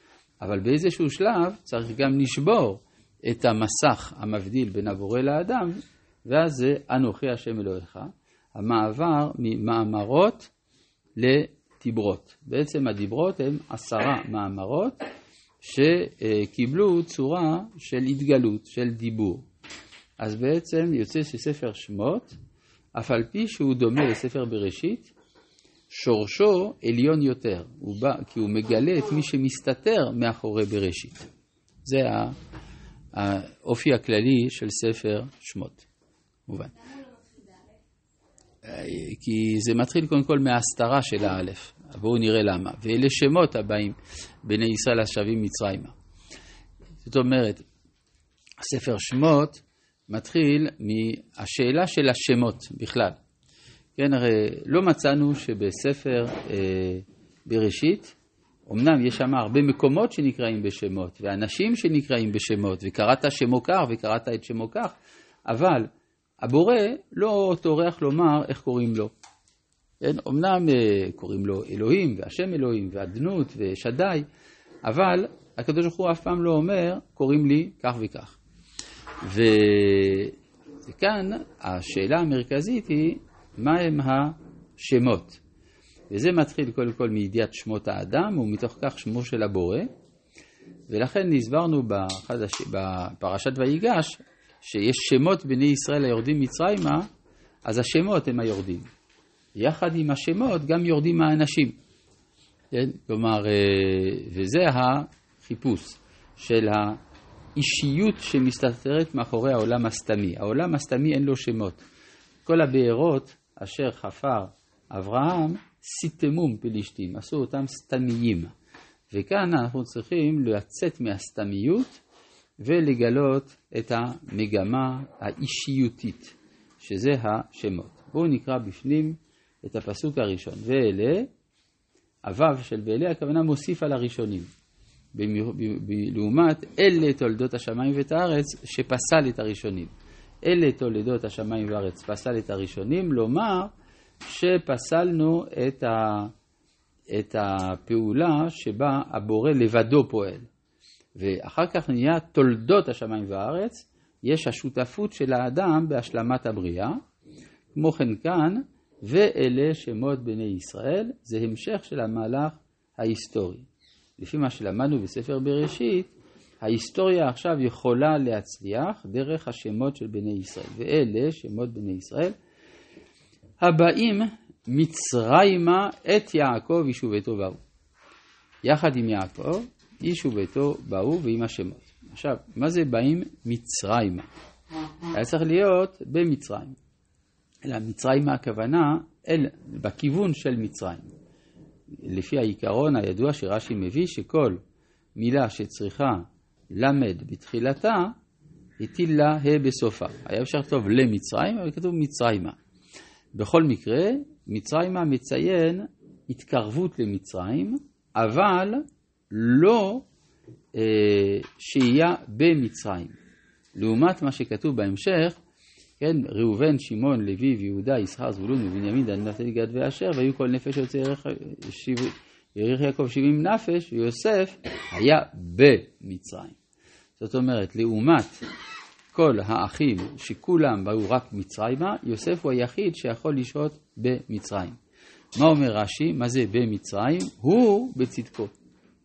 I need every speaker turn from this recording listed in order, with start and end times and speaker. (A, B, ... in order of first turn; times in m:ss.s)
0:00.4-0:10.5 A
0:11.2-0:15.0 A
0:15.6-0:19.4 A
0:20.2-0:22.4 A
0:23.0-0:25.1 A
0:25.9-0:31.3 A
0:31.8-0:32.4 A
0:33.1-0:35.8 A
0:36.5-0:37.1 A
0:38.6-0:45.9 A
0:47.0-0:47.6 A
0:48.6-0:53.2 A
0:54.0-0:58.2 A
0:58.7-1:04.9 A
1:05.5-1:05.9 A
1:06.4-1:09.1 A
1:10.0-1:14.3 A
1:14.8-1:18.4 A
1:19.2-1:20.4 A
1:20.9-1:25.4 A
1:26.1-1:29.9 A
1:30.9-1:37.0 A
1:37.6-1:38.9 A
1:39.6-1:41.8 A
1:42.7-1:47.0 A
1:47.5-1:51.8 A
1:52.4-1:58.5 A
1:59.1-2:02.0 A
2:02.6-2:11.3 A
2:12.2-2:14.5 A
2:15.1-2:19.9 A
2:20.4-2:23.7 A
2:24.2-2:26.3 A
2:27.1-2:30.4 A
2:31.2-2:37.0 A
2:37.7-2:43.7 A
2:44.2-2:46.1 A
2:46.6-2:52.3 A
2:53.6-2:57.6 A
2:58.6-3:04.3 A
3:05.1-3:06.8 A
3:07.6-3:11.1 A
3:12.0-3:14.6 A
3:15.2-3:18.1 A
3:18.8-3:22.6 A
3:23.3-3:30.0 A
3:30.7-3:33.2 A
3:33.8-3:35.4 A
3:36.0-3:46.6 A
3:47.2-3:48.4 A
3:49.1-3:54.8 A
3:55.4-3:58.5 A